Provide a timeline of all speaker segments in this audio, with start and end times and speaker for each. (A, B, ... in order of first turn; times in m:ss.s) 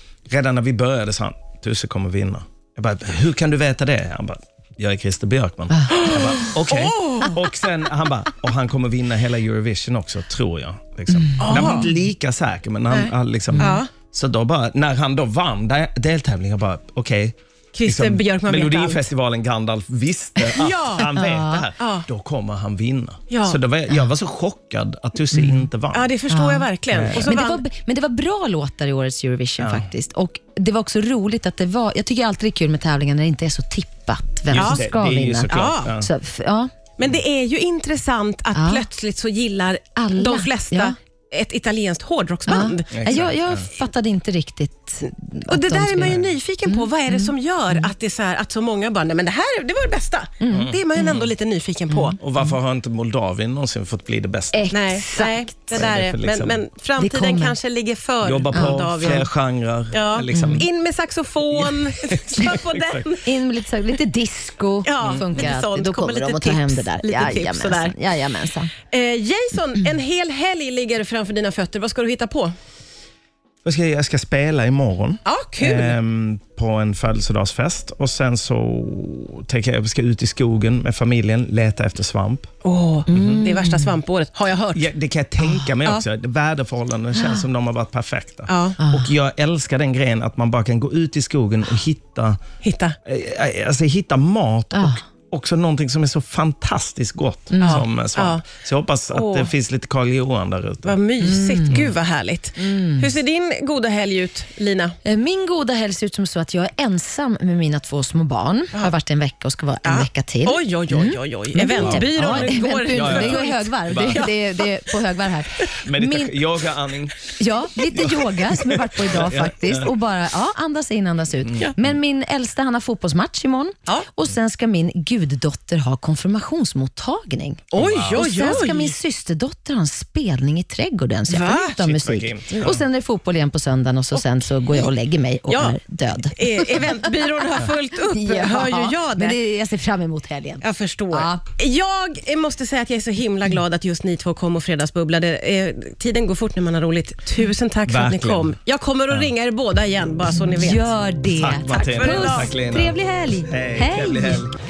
0:00.3-0:26.1 A
0:05.7-0:06.1 B
0:05.9-0:07.4 C
0:11.2-0:11.8 B
0:11.4-0:11.9 C
0:12.9-0:13.9 C
0:13.5-0:13.8 B
0:17.7-0:19.1 C
0:20.4-0:21.1 C
0:21.1-0:21.7 B
0:21.8-0:22.1 C
0:23.3-0:23.6 C
0:25.3-0:25.7 B
0:25.9-0:27.6 C
0:26.3-0:36.7 B
0:26.9-0:27.3 A
0:29.6-0:29.9 A
0:34.5-0:36.1 A
0:34.5-0:34.8 C
0:35.5-0:36.0 C
0:37.0-0:43.3 C
0:38.5-0:38.9 B
0:40.0-0:40.9 B
0:42.5-0:47.9 B
0:42.9-0:43.6 A
0:45.5-0:52.2 C
0:50.4-0:50.7 B
0:50.5-0:51.3 A
0:51.9-0:52.2 B
0:52.2-0:54.7 A
0:54.5-0:55.8 B
0:54.7-0:59.3 C
0:55.7-0:56.6 A
0:57.0-0:57.6 B
0:58.2-1:00.6 A
0:58.5-0:58.8 B
0:59.9-1:03.2 C
1:00.3-1:00.6 B
1:02.0-1:03.0 A
1:03.2-1:08.7 B
1:04.8-1:08.0 C
1:08.9-1:12.5 C
1:13.6-1:22.5 A
1:15.3-1:16.0 C
1:22.6-1:24.9 C
1:23.1-1:24.0 B
1:23.1-1:23.4 A
1:24.7-1:32.4 A
1:27.2-1:27.4 B
1:28.5-1:28.8 C
1:28.8-1:29.1 B
1:32.6-1:33.0 C
1:33.0-1:41.0 A
1:34.7-1:35.0 B
1:37.5-1:37.8 B
1:37.6-1:38.4 C
1:39.1-1:39.5 C
1:40.9-1:45.0 C
1:41.2-1:41.8 B
1:42.6-1:43.1 B
1:45.0-1:56.4 B
1:49.8-1:54.8 C
1:51.8-1:54.3 A
1:55.8-1:59.9 A
1:57.4-2:17.0 B
2:01.5-2:01.8 A
2:07.7-2:08.9 C
2:07.8-2:08.7 A
2:11.3-2:11.8 C
2:11.6-2:12.8 A
2:14.1-2:14.9 C
2:15.5-2:19.4 C
2:18.1-2:21.4 B
2:20.6-2:30.9 C
2:27.9-2:28.6 A
2:30.4-2:34.5 B
2:31.4-2:34.6 A
2:31.7-2:32.5 C